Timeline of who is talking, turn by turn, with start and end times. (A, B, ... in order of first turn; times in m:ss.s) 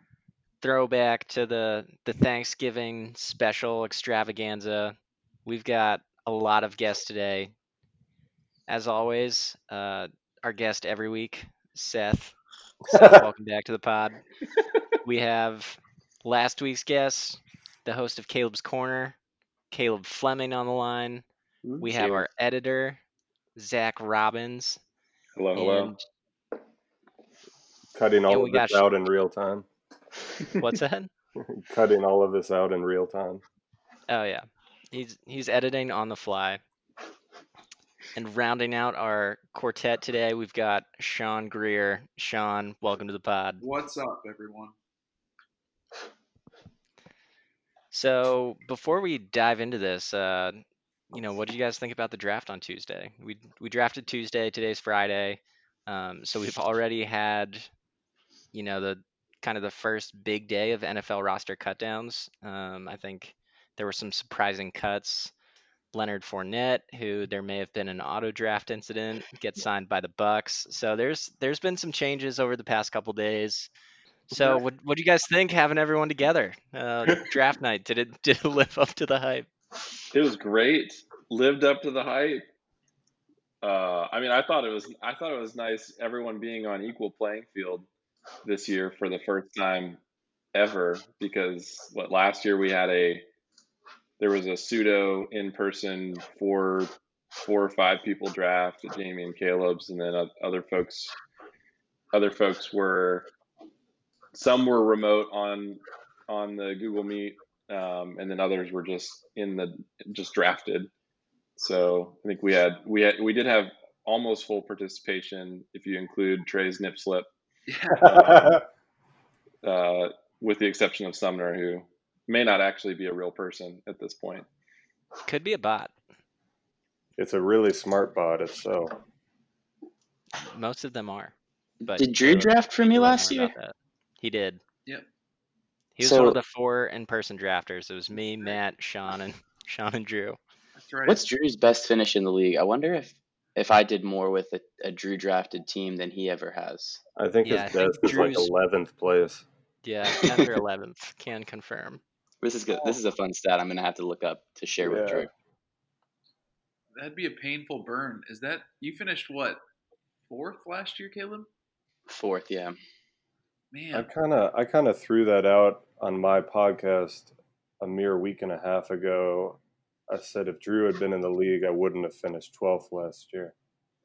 0:00.6-0:07.5 A
0:08.7-0:12.4 A
0:12.9-0:14.2 A
0:12.9-0:13.2 B
0:15.0-0:19.2 A
0:19.7-0:21.2 A
0:21.6-0:21.9 B
0:21.8-0:23.0 A
0:23.6-0:24.8 A
0:25.4-0:25.9 C
0:25.5-0:26.0 A
0:27.9-0:29.6 B
0:28.3-0:28.8 A
0:30.6-0:31.1 A
0:31.4-0:33.4 B
0:34.1-0:36.6 A
0:38.1-0:43.6 A
0:43.6-0:44.7 D
0:47.9-0:57.7 A
0:58.5-1:05.3 A
1:05.9-1:13.7 A
1:14.3-1:19.5 A
1:20.1-1:22.4 C
1:23.6-1:27.9 C
1:28.4-1:30.0 C
1:30.5-1:33.2 C
1:34.2-1:41.1 C
1:42.1-1:43.3 C
1:44.3-1:50.9 C
1:51.6-1:57.3 C
1:57.7-1:58.6 D
1:58.0-1:58.6 B
1:59.6-2:04.5 C
2:05.2-2:05.9 A
2:07.2-2:08.9 B
2:10.3-2:14.6 A
2:11.9-2:13.5 E
2:16.0-2:20.4 A
2:16.0-2:16.4 E
2:20.8-2:21.2 D
2:21.1-2:27.0 E
2:27.2-2:29.4 B
2:27.4-2:28.5 A
2:29.8-2:32.0 A
2:30.2-2:30.5 E
2:32.4-2:35.3 E
2:32.7-2:33.0 D
2:34.8-2:35.3 B
2:37.0-2:39.6 D
2:40.3-2:41.5 D
2:42.1-2:42.8 E
2:43.7-2:44.1 D
2:43.9-2:53.5 B